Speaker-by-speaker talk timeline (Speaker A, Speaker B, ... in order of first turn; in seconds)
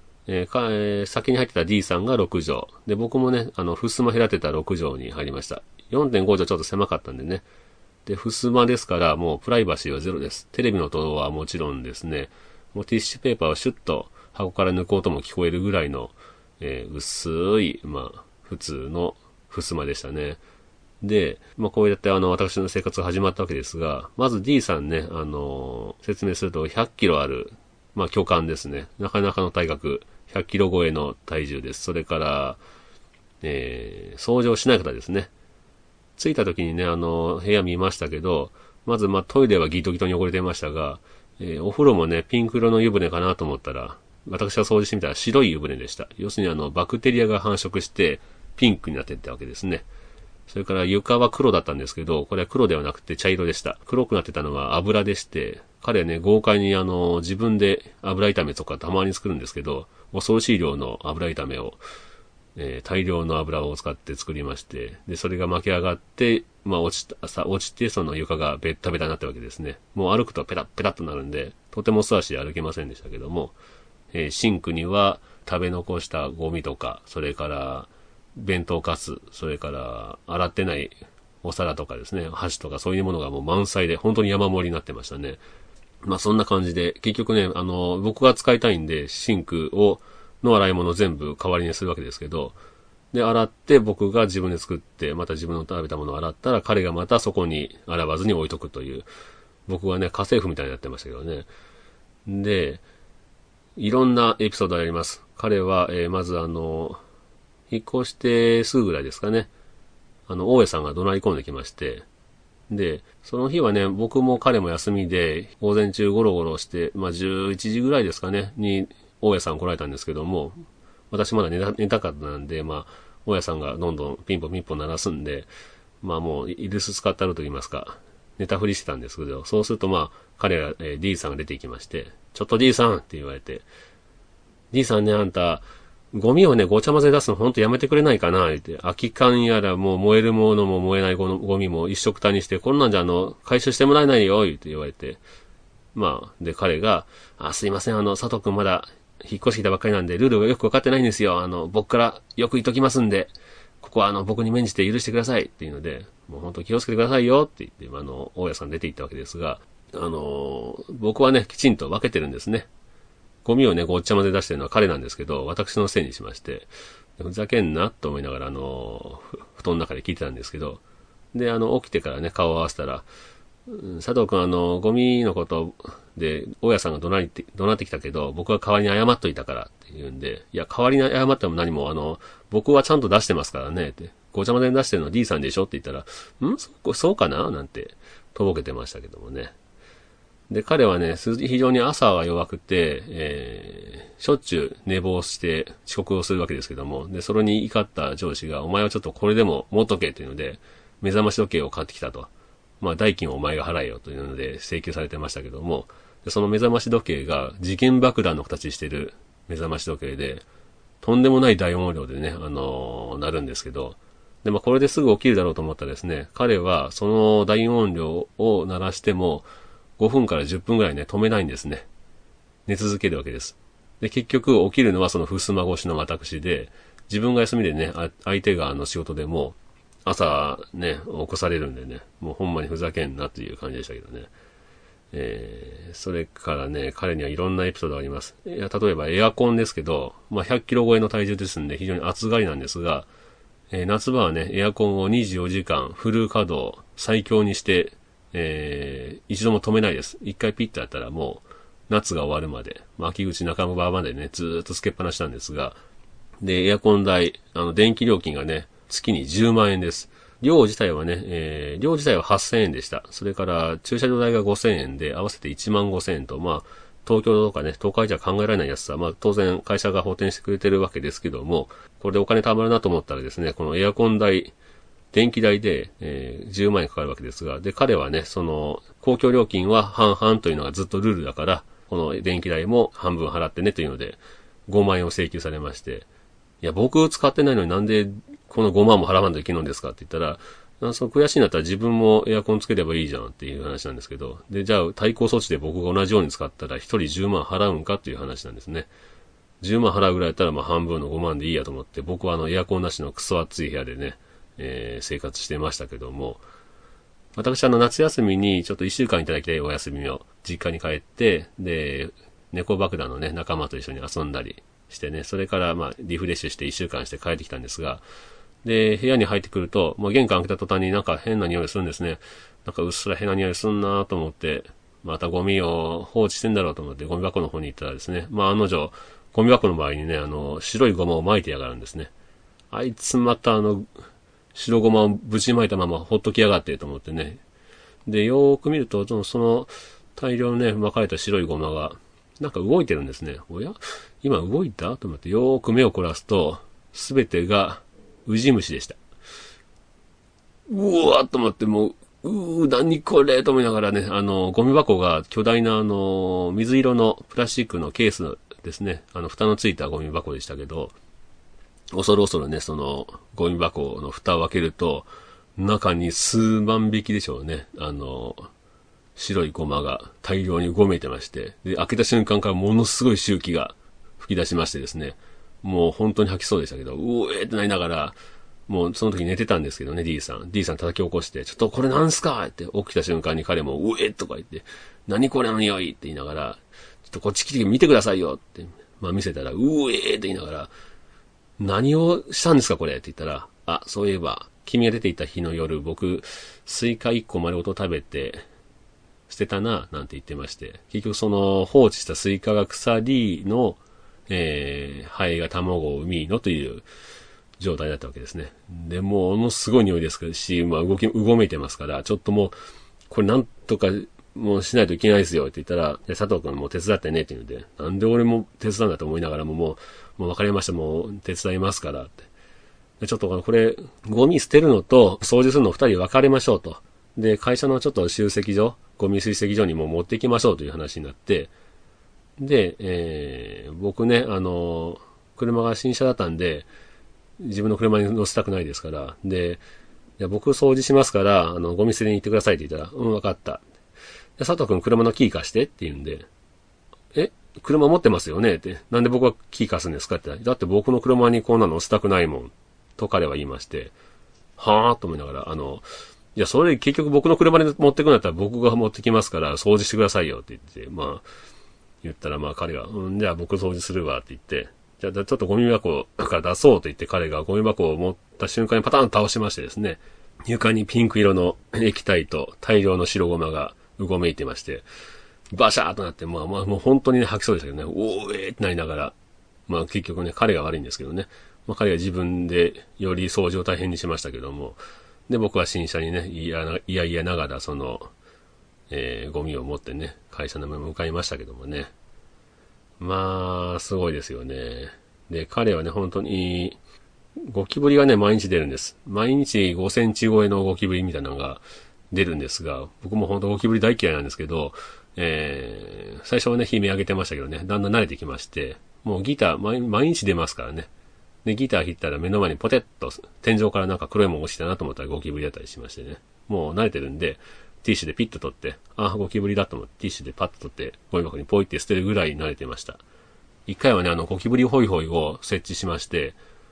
Speaker A: 0.3-7.5, 8.1-20.4, 21.0-32.6, 33.4-35.3, 36.2-49.9, 50.5-61.8, 62.5-73.5, 74.1-85.4, 86.0-92.6, 93.1-99.1, 99.7-101.5, 102.2-102.8, 103.8-107.0, 107.7-109.5, 110.3-112.0, 112.7-125.5, 126.0-133.7, 134.7-145.2, 145.9-162.7, 163.4-170.8, 171.3-173.1, 173.7-189.5, 190.5-210.4, 211.0-219.5, 220.0-221.8, 222.7-234.3, 235.1-243.1, 243.7-255.8, 256.4-274.5, 275.1-286.1, 286.6-298.9, 299.6-306.4, 307.4-318.0, 318.6-332.1, 332.7-333.9, 334.5-337.4, 338.1-349.0, 350.7-360.9, 361.9-368.5, 369.1-390.7, 391.6-398.4, 399.3-406.8, 407.6-412.6, 413.1-422.3, 423.0-431.5, 432.4-436.7, 437.4-439.6, 440.2-443.6, 444.4-446.3, 447.1-453.9, 454.6-461.2, 462.0-474.8, 475.5-479.1, 479.7-488.1, 488.9-491.9, 493.0-496.8, 497.4-510.9, 511.4-523.0, 523.7-526.4